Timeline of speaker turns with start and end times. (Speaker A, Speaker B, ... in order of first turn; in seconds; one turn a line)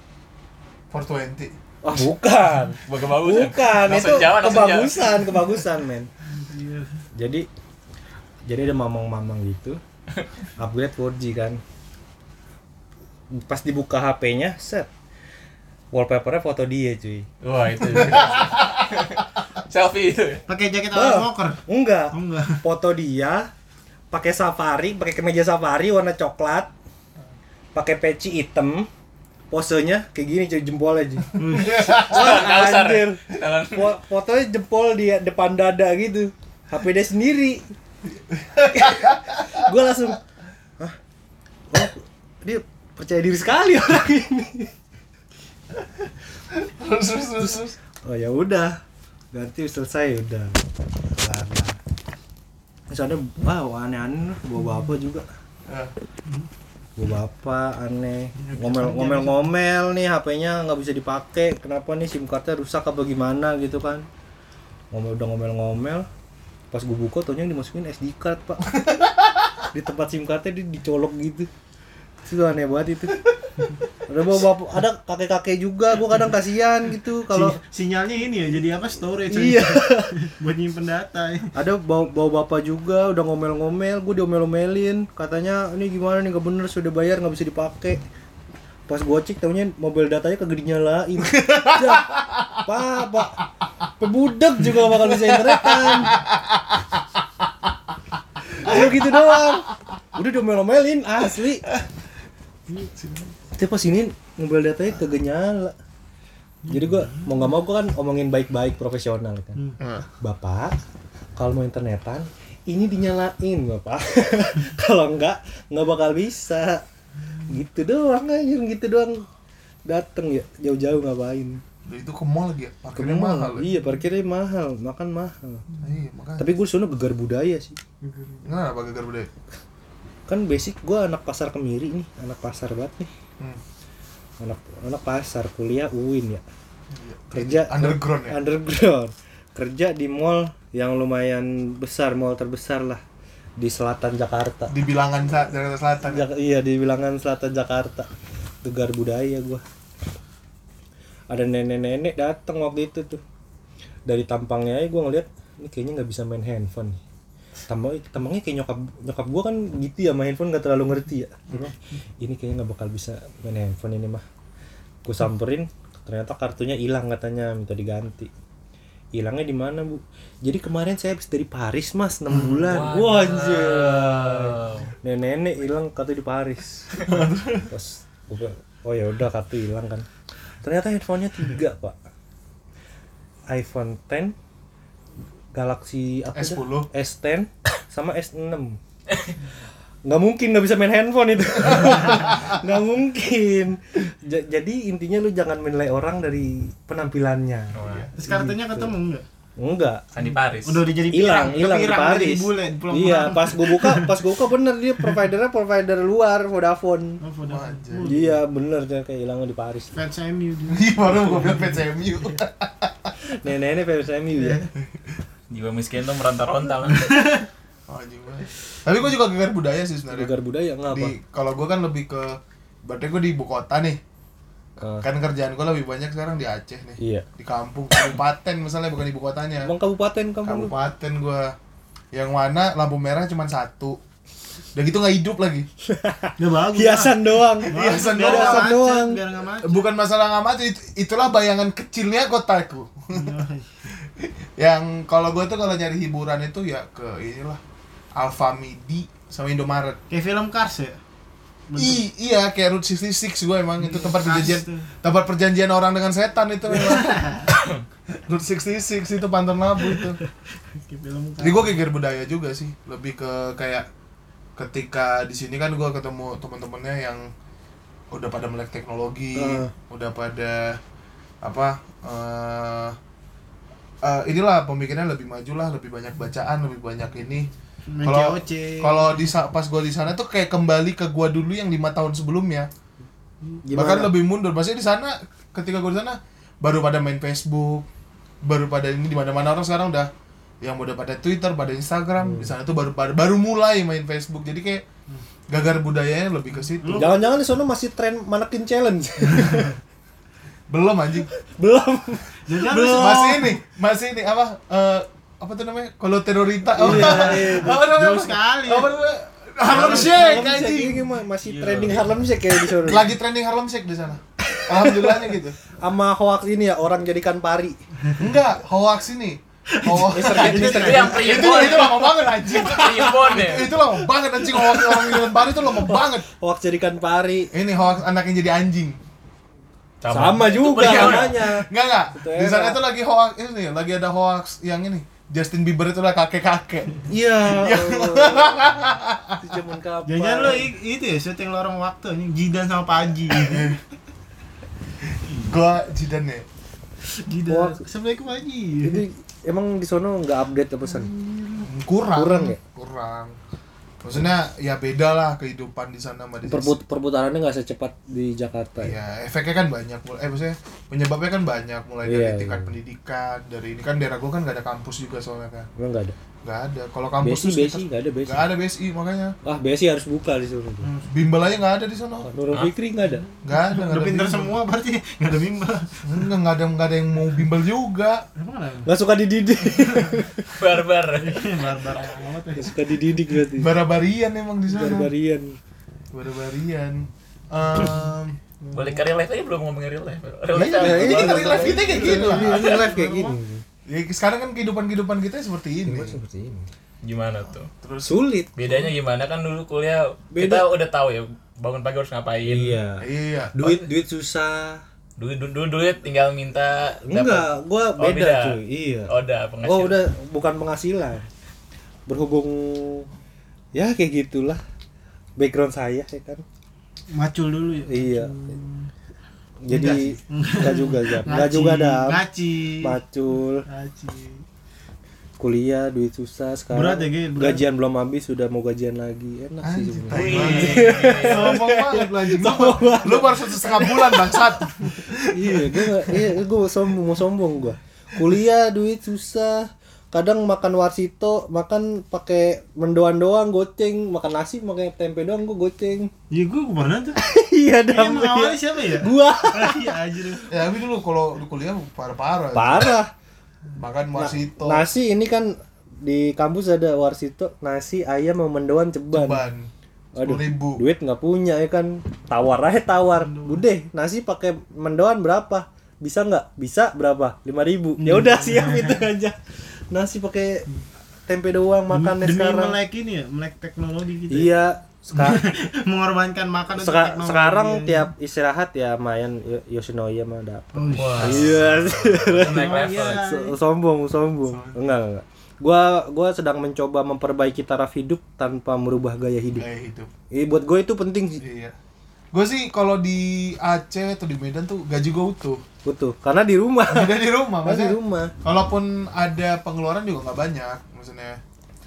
Speaker A: 0.9-1.5
Speaker B: 1.8-6.1
Speaker C: 2.9-5.3
Speaker D: 6.3-7.0
Speaker B: 7.2-7.5
Speaker B: 8.5-9.8
Speaker B: 10.6-11.6
Speaker B: 13.3-14.9
Speaker B: 15.9-17.3
Speaker C: 17.4-20.4
Speaker A: 18.0-18.5
Speaker D: 20.5-21.6
Speaker B: 20.9-23.5
Speaker D: 22.1-22.6
Speaker B: 24.1-26.7
Speaker B: 27.8-28.9
Speaker B: 29.5-37.6
Speaker D: 31.4-31.8
Speaker A: 31.5-32.4
Speaker C: 31.8-34.0
Speaker A: 38.3-39.7
Speaker B: 38.7-40.2
Speaker B: 41.7-44.7
Speaker A: 46.5-47.8
Speaker B: 47.4-48.8
Speaker B: 49.3-50.6
Speaker B: 51.1-51.8
Speaker B: 52.9-55.3
Speaker A: 55.7-55.9
Speaker B: 57.0-64.1
Speaker D: 58.4-59.4
Speaker B: 64.9-66.1
Speaker B: 66.7-68.8
Speaker A: 68.7-69.1
Speaker B: 69.7-71.5
Speaker B: 72.3-73.3
Speaker B: 74.1-77.6
Speaker D: 77.3-81.5
Speaker B: 79.3-80.2
Speaker B: 81.5-88.0
Speaker B: 88.9-93.4
Speaker A: 91.3-92.6
Speaker B: 94.0-96.2
Speaker A: 95.0-97.0
Speaker B: 98.6-101.7
Speaker A: 98.6-99.5
Speaker A: 103.0-103.2
Speaker B: 103.5-105.8
Speaker D: 106.7-107.2
Speaker B: 106.7-109.6
Speaker A: 109.8-110.1
Speaker B: 110.2-110.8
Speaker B: 111.4-116.8
Speaker B: 117.5-119.3
Speaker B: 119.9-121.6
Speaker A: 121.8-123.7
Speaker B: 123.0-125.7
Speaker A: 125.8-126.5
Speaker B: 126.4-127.8
Speaker D: 128.0-128.4
Speaker A: 128.4-129.3
Speaker B: 130.3-133.1
Speaker B: 134.4-136.4
Speaker A: 136.9-138.4
Speaker B: 137.3-143.0
Speaker B: 143.6-144.7
Speaker A: 144.7-146.3
Speaker B: 146.1-148.1
Speaker B: 148.6-149.6
Speaker B: 151.3-153.2
Speaker B: 154.1-157.0
Speaker B: 157.7-164.2
Speaker B: 165.1-168.3
Speaker B: 169.1-177.0
Speaker C: 172.4-174.9
Speaker A: 177.0-177.7
Speaker B: 177.7-180.1
Speaker B: 180.6-182.0
Speaker B: 183.5-184.3
Speaker B: 185.5-188.8
Speaker A: 186.3-186.9
Speaker B: 190.1-198.9
Speaker A: 191.7-192.5
Speaker C: 197.7-198.1
Speaker A: 197.8-198.1
Speaker D: 198.2-199.3
Speaker B: 199.6-200.0
Speaker C: 200.1-200.9
Speaker D: 200.6-204.2
Speaker B: 201.1-207.2
Speaker D: 207.2-208.4
Speaker A: 207.5-208.1
Speaker B: 208.0-209.9
Speaker D: 209.9-211.8
Speaker A: 210.7-213.1
Speaker B: 213.3-214.6
Speaker D: 214.3-214.7
Speaker C: 215.5-217.3
Speaker D: 216.9-217.5
Speaker A: 217.9-220.3
Speaker B: 220.1-221.1
Speaker A: 220.9-224.0
Speaker B: 224.8-225.1
Speaker A: 225.0-229.7
Speaker B: 227.0-227.3
Speaker B: 229.6-230.8
Speaker A: 230.4-231.6
Speaker A: 232.1-234.0
Speaker A: 234.7-235.7
Speaker B: 235.9-239.2
Speaker D: 236.4-239.8
Speaker A: 237.7-238.7
Speaker A: 239.6-243.4
Speaker D: 243.1-243.8
Speaker A: 244.0-247.6
Speaker A: 248.2-250.0
Speaker D: 250.1-251.0
Speaker D: 251.7-252.0
Speaker A: 251.8-257.5
Speaker D: 253.8-254.9
Speaker D: 256.7-257.5
Speaker A: 258.1-260.2
Speaker D: 259.9-261.8
Speaker A: 261.4-263.9
Speaker A: 264.6-267.3
Speaker A: 268.1-270.8
Speaker B: 269.4-269.7
Speaker A: 271.4-273.0
Speaker A: 274.0-277.5
Speaker D: 277.9-279.3
Speaker A: 278.0-282.7
Speaker B: 283.6-284.1
Speaker A: 283.7-287.9
Speaker A: 288.4-290.1
Speaker A: 290.6-294.8
Speaker B: 292.2-292.5
Speaker A: 295.5-297.2
Speaker D: 296.8-297.3
Speaker B: 296.9-299.8
Speaker A: 300.7-301.3
Speaker B: 301.4-302.4
Speaker D: 302.5-303.6
Speaker A: 302.6-311.0
Speaker B: 306.8-307.8
Speaker D: 306.8-308.9
Speaker D: 309.6-310.5
Speaker B: 309.7-313.1
Speaker D: 311.6-312.1
Speaker A: 312.8-315.6
Speaker B: 314.6-315.1
Speaker B: 315.8-317.8
Speaker A: 318.2-326.3
Speaker D: 319.7-321.8
Speaker B: 320.1-321.6
Speaker C: 320.3-323.7
Speaker B: 324.7-327.5
Speaker A: 327.5-329.0
Speaker C: 330.0-331.4
Speaker B: 330.1-332.8
Speaker A: 330.4-339.6
Speaker B: 337.1-338.7
Speaker B: 339.4-340.7
Speaker D: 340.1-343.8
Speaker A: 343.3-343.8
Speaker A: 345.3-346.5
Speaker D: 347.0-349.0
Speaker B: 347.5-347.8
Speaker B: 348.8-351.1
Speaker D: 351.1-351.7
Speaker A: 351.6-353.4
Speaker B: 352.1-352.6
Speaker A: 354.0-356.8
Speaker B: 356.5-359.0
Speaker A: 358.8-365.7
Speaker B: 362.0-362.7
Speaker B: 365.8-366.2
Speaker A: 366.4-369.4
Speaker B: 367.2-368.5
Speaker B: 369.4-370.9
Speaker D: 370.8-371.3
Speaker A: 371.1-372.3
Speaker B: 372.2-373.3
Speaker A: 373.4-374.6
Speaker D: 373.5-376.2
Speaker A: 376.1-378.2
Speaker D: 378.4-378.9
Speaker B: 378.9-380.6
Speaker D: 379.7-380.2
Speaker C: 380.5-381.8
Speaker D: 381.2-382.9
Speaker B: 382.6-383.7
Speaker A: 383.6-385.1
Speaker B: 384.7-385.6
Speaker A: 386.1-388.4
Speaker C: 388.7-391.7
Speaker A: 390.5-392.7
Speaker B: 390.5-393.6
Speaker D: 391.4-393.4
Speaker A: 393.9-396.2
Speaker B: 395.9-396.7
Speaker C: 397.0-397.7
Speaker A: 397.6-398.2
Speaker B: 398.1-398.5
Speaker C: 398.6-402.8
Speaker B: 400.3-400.7
Speaker B: 402.5-404.8
Speaker A: 403.0-403.8
Speaker C: 405.2-408.6
Speaker B: 407.1-409.1
Speaker C: 409.1-410.0
Speaker B: 409.6-411.3
Speaker B: 412.1-413.1
Speaker B: 413.8-414.6
Speaker B: 415.4-416.4
Speaker D: 417.1-418.9
Speaker B: 417.9-418.3
Speaker B: 419.6-422.2
Speaker A: 419.7-420.2
Speaker D: 420.3-423.0
Speaker B: 422.8-423.6
Speaker D: 423.7-424.4
Speaker B: 425.4-434.7
Speaker D: 426.7-427.6
Speaker A: 429.6-435.6
Speaker C: 430.1-431.6
Speaker B: 435.2-446.1
Speaker D: 446.3-447.2
Speaker B: 447.2-450.0
Speaker D: 447.9-450.5
Speaker A: 450.5-453.0
Speaker B: 452.5-453.1
Speaker A: 453.8-454.9
Speaker B: 454.1-459.4
Speaker A: 459.1-460.8
Speaker B: 460.1-469.4
Speaker D: 463.2-463.6
Speaker D: 468.0-469.1
Speaker B: 469.9-470.7
Speaker B: 471.3-472.8
Speaker D: 471.9-474.6
Speaker B: 474.3-475.4
Speaker D: 475.1-478.1
Speaker B: 476.8-489.7
Speaker D: 480.7-481.6
Speaker C: 480.9-483.2
Speaker D: 482.4-483.6
Speaker A: 484.5-484.8
Speaker A: 489.5-490.1
Speaker B: 490.3-491.4
Speaker A: 491.4-491.8
Speaker A: 492.3-495.6
Speaker B: 495.9-498.3
Speaker A: 496.9-501.4